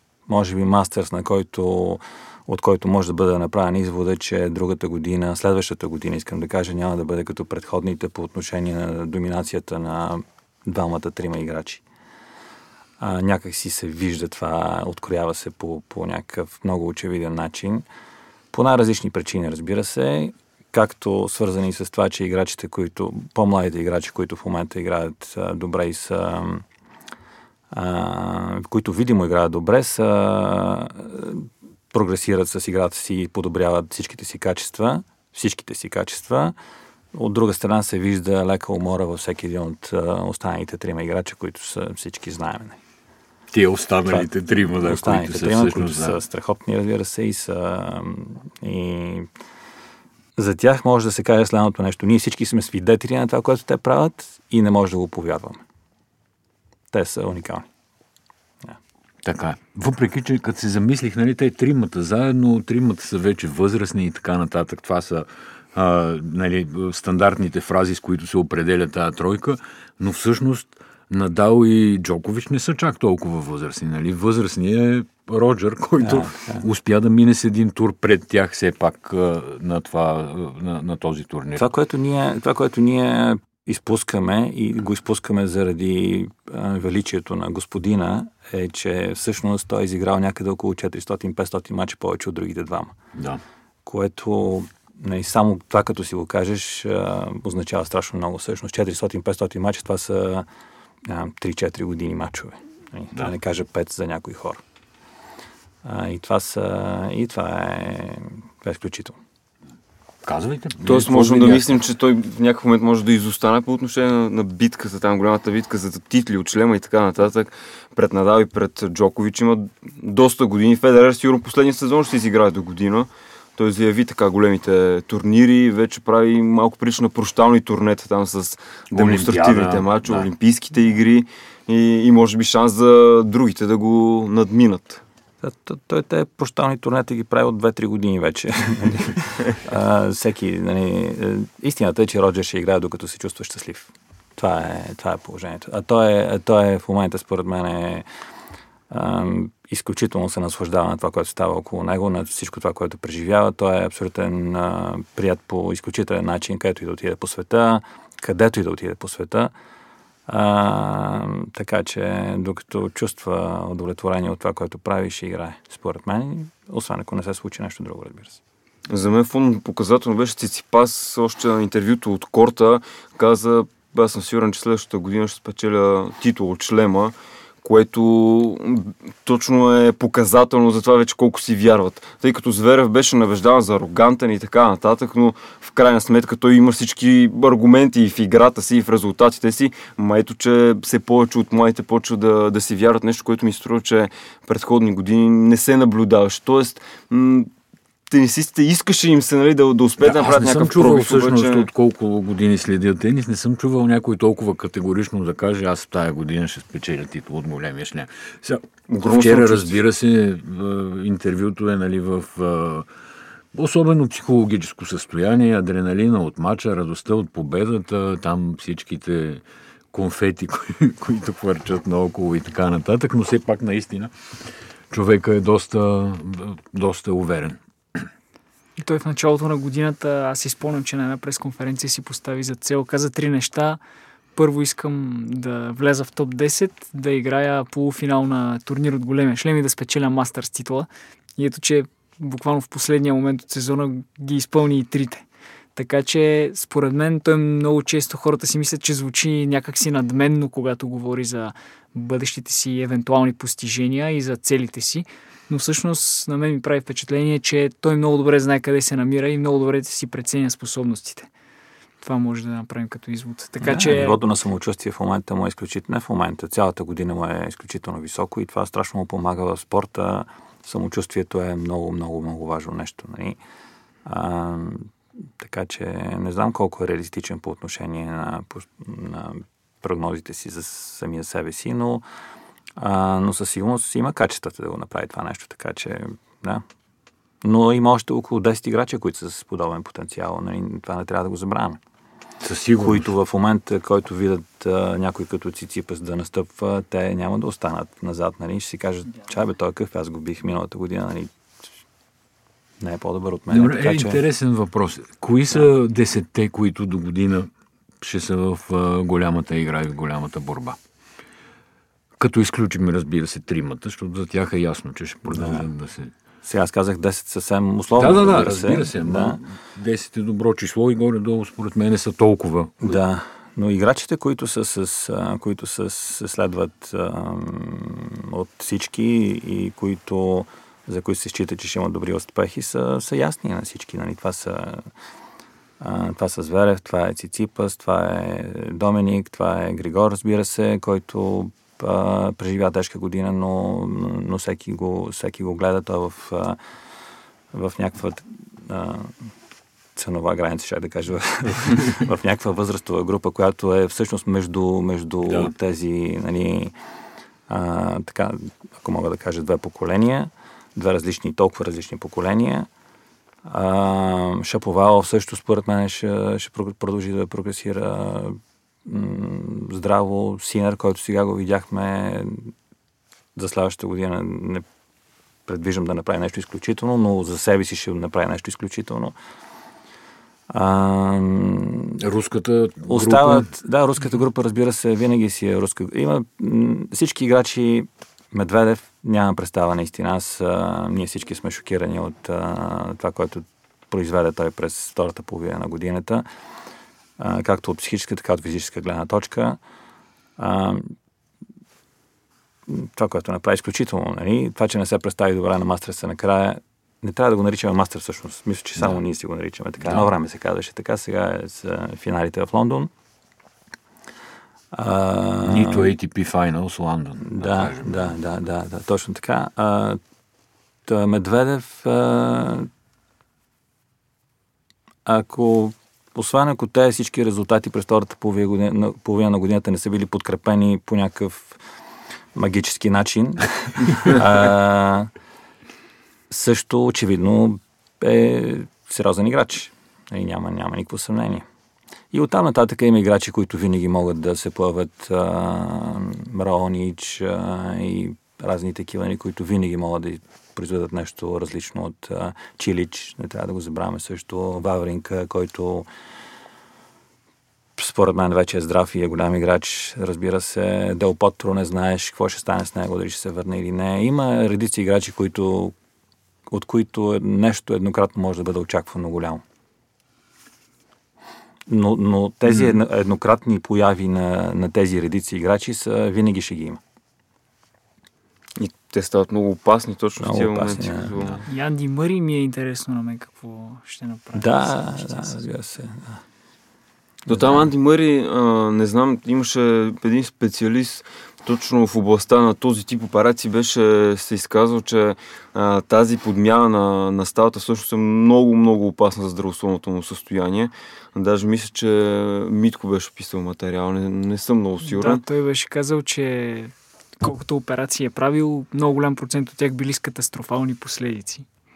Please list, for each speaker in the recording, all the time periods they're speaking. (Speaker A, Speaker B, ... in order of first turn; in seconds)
Speaker A: 0.3-11.8, 13.0-17.9, 18.5-26.6, 27.7-36.5, 37.1-42.8, 44.1-49.3, 50.4-55.6, 56.9-57.7, 76.0-76.7, 81.6-92.9, 93.8-100.5, 101.1-104.6, 105.8-109.2, 135.4-148.1, 148.9-159.5, 160.3-168.4, 263.6-273.4, 274.1-282.0, 282.8-286.6, 287.4-291.8, 292.8-301.3, 302.8-304.2, 315.3-315.7, 316.4-319.4, 322.8-334.9, 335.8-346.6, 347.5-349.3, 350.0-356.7, 357.5-362.7, 363.4-372.5, 373.4-374.6, 375.5-379.1, 380.5-382.0, 382.9-396.2, 397.2-399.6, 400.4-401.0, 402.7-412.9, 414.7-415.9, 417.2-420.0, 420.9-422.7, 425.1-431.6, 432.4-435.1, 436.3-441.4, 442.1-455.9, 457.8-465.8, 466.5-469.4, 471.7-476.8, 480.2-481.1, 484.3-486.2, 487.3-487.7
Speaker B: 43.5-46.2, 59.2-81.7, 93.2-93.4, 110.2-111.8, 128.9-130.3, 200.0-212.9, 213.5-224.1, 224.9-228.1, 292.4-293.1, 303.5-307.5, 308.0-310.8, 312.2-316.1, 318.0-323.0, 355.3-355.5, 382.0-383.5, 408.8-409.0, 409.8-410.1, 415.4-418.1, 481.1-481.4
Speaker C: 110.8-135.0, 168.9-197.5, 198.1-201.7, 208.9-209.8, 478.6-481.4, 487.3-505.2
Speaker D: 228.8-233.8, 234.3-245.2, 245.8-261.3, 262.0-264.2, 481.5-485.5, 504.8-511.5